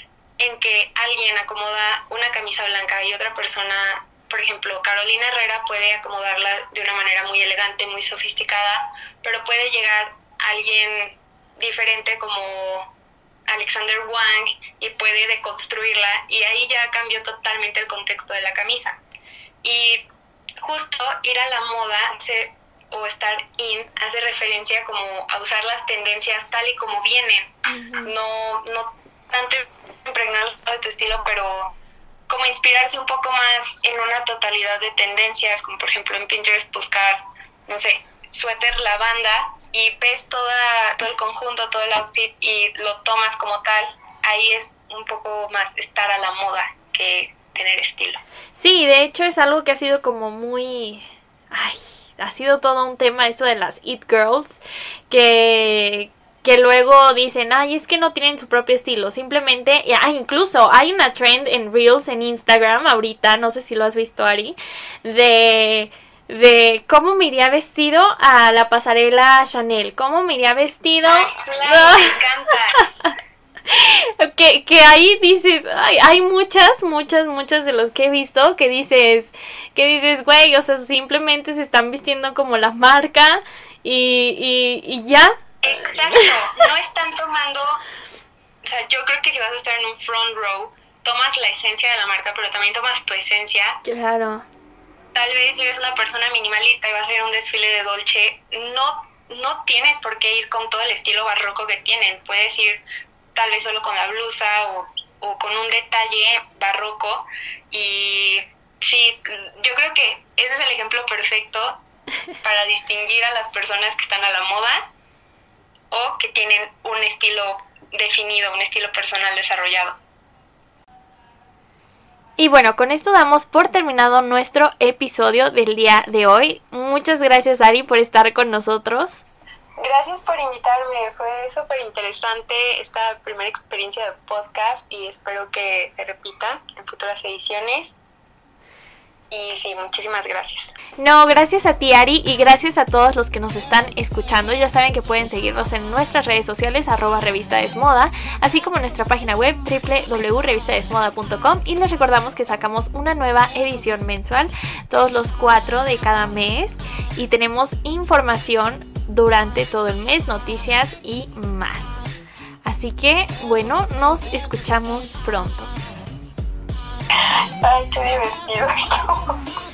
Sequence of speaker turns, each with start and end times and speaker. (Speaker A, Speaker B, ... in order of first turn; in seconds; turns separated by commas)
Speaker A: 0.4-12.9, Speaker A: 13.5-19.0, Speaker A: 19.6-20.0, Speaker A: 20.6-31.7, Speaker B: 27.7-28.1, Speaker A: 32.3-48.2, Speaker B: 48.5-72.2, Speaker A: 71.0-72.8, Speaker B: 73.7-85.3, Speaker A: 85.6-87.8, Speaker A: 88.6-93.8, Speaker B: 93.8-94.5, Speaker A: 95.1-102.8, Speaker A: 103.3-111.8, Speaker A: 112.4-114.9, Speaker A: 115.9-120.0, Speaker B: 122.4-129.2, Speaker A: 129.8-138.0, Speaker A: 139.3-140.7, Speaker B: 141.0-162.0, Speaker B: 162.6-165.7, Speaker A: 167.6-169.4